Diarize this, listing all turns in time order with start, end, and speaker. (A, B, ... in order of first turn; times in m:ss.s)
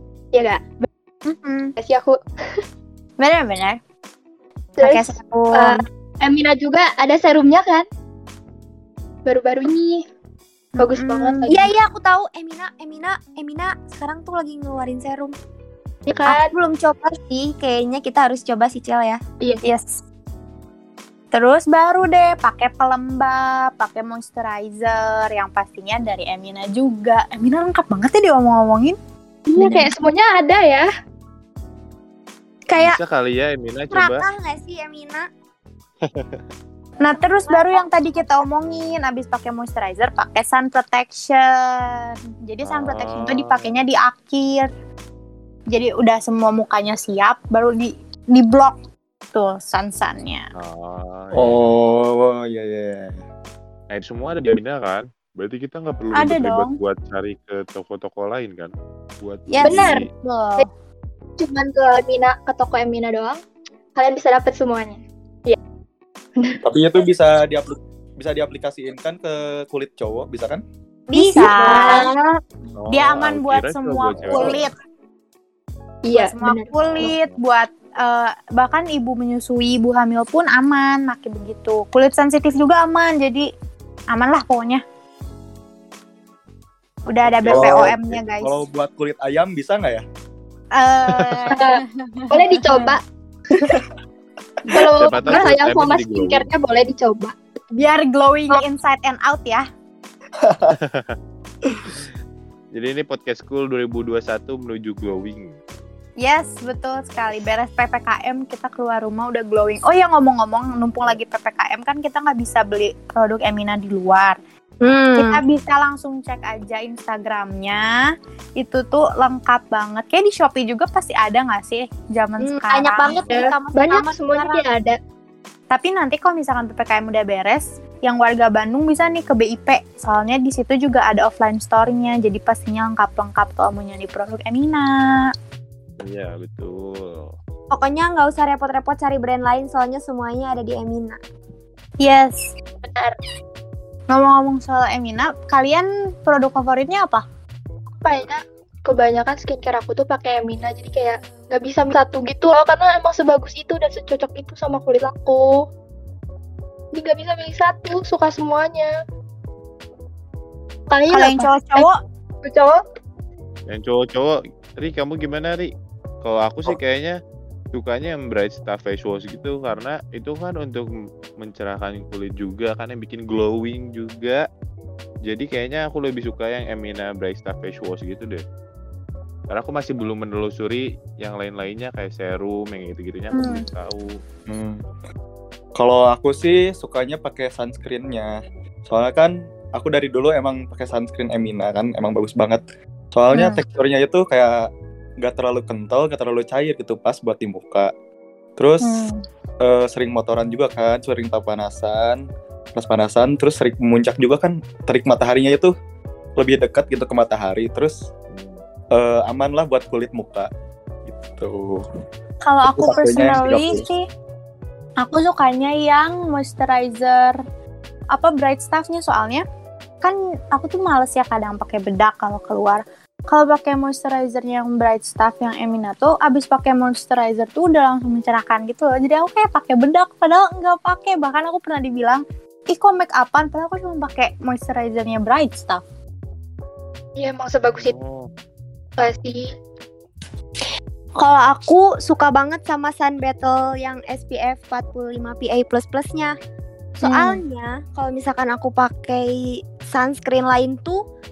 0:00.3-0:00.9 A
0:01.3-0:01.7 B
0:01.8-0:02.2 A
0:03.2-0:03.8 B
0:04.8-0:07.8 A
0:04.8-0:05.8 B
0:09.3-0:10.0 A
0:10.8-0:11.7 A
0:10.8-0:11.5 B
0:11.5-0:15.3 C
0:16.1-0:16.5 A
0:16.3-0:19.2 C
0:19.6-0:20.0 B
0:21.3-0:29.0 B
0:29.5-0:30.9 A
0:29.6-0:29.9 B
0:32.7-0:33.0 C
0:32.8-0:34.2 D
0:33.9-0:35.3 C
0:36.1-0:36.4 D
0:37.0-0:44.7 B
0:37.2-0:38.4 C
0:42.6-0:43.8 D
0:45.7-0:48.8 B
0:49.3-0:50.5 B
0:50.6-0:51.6 D
0:51.3-0:53.2 E
0:53.9-1:00.0 D
0:56.1-0:56.8 B
0:59.5-1:00.7 B
0:59.6-1:00.0 A
1:01.4-1:03.4 A
1:04.0-1:05.6 A
1:06.6-1:10.6 E
1:11.1-1:12.2 C
1:11.1-1:12.1 B
1:11.3-1:12.1 A
1:12.8-1:14.7 D
1:12.9-1:14.7 B
1:16.1-1:17.1 A
1:16.1-1:23.5 B
1:16.8-1:17.4 D
1:24.1-1:24.8 B
1:27.1-1:28.6 B
1:27.3-1:27.9 D
1:27.5-1:30.0 E
1:30.8-1:33.0 B
1:31.5-1:33.0 A
1:34.7-1:37.3 A
1:35.0-1:36.5 D
1:37.7-1:39.6 B
1:40.4-1:40.8 E
1:42.7-1:45.6 D
1:46.2-1:54.4 B
1:54.8-1:55.4 C
1:55.2-1:57.9 B
1:58.6-2:03.3 B
2:02.4-2:04.6 C
2:03.0-2:05.0 A
2:05.7-2:15.3 B
2:16.0-2:17.3 D
2:17.7-2:21.2 C
2:22.0-2:22.5 B
2:22.9-2:23.1 A
2:24.1-2:27.2 B
2:28.0-2:35.6 A
2:36.9-2:38.9 A
2:40.9-2:41.9 A
2:41.1-2:41.9 B
2:42.4-2:42.8 A
2:43.7-2:45.7 D
2:46.2-2:47.2 D
2:47.7-2:50.9 D
2:51.4-2:54.4 D
2:55.3-2:58.4 D
2:59.5-3:04.1 D
3:03.3-3:03.6 B
3:04.5-3:04.8 E
3:05.8-3:12.6 E
3:13.1-3:17.9 E
3:13.3-3:13.6 B
3:18.6-3:19.0 E
3:18.8-3:19.2 B
3:19.6-3:22.2 E
3:22.8-3:25.7 E
3:26.4-3:28.0 E
3:28.3-3:28.6 D
3:28.9-3:30.5 E
3:31.1-3:31.8 E
3:32.4-3:34.1 B
3:32.7-3:33.9 E
3:35.0-3:37.4 B
3:38.1-3:39.4 B
3:40.0-3:55.8 B
3:57.2-3:57.9 A
3:57.8-3:58.3 D
3:59.0-3:59.5 A
4:01.2-4:06.3 C
4:07.0-4:11.0 C
4:07.0-4:07.4 B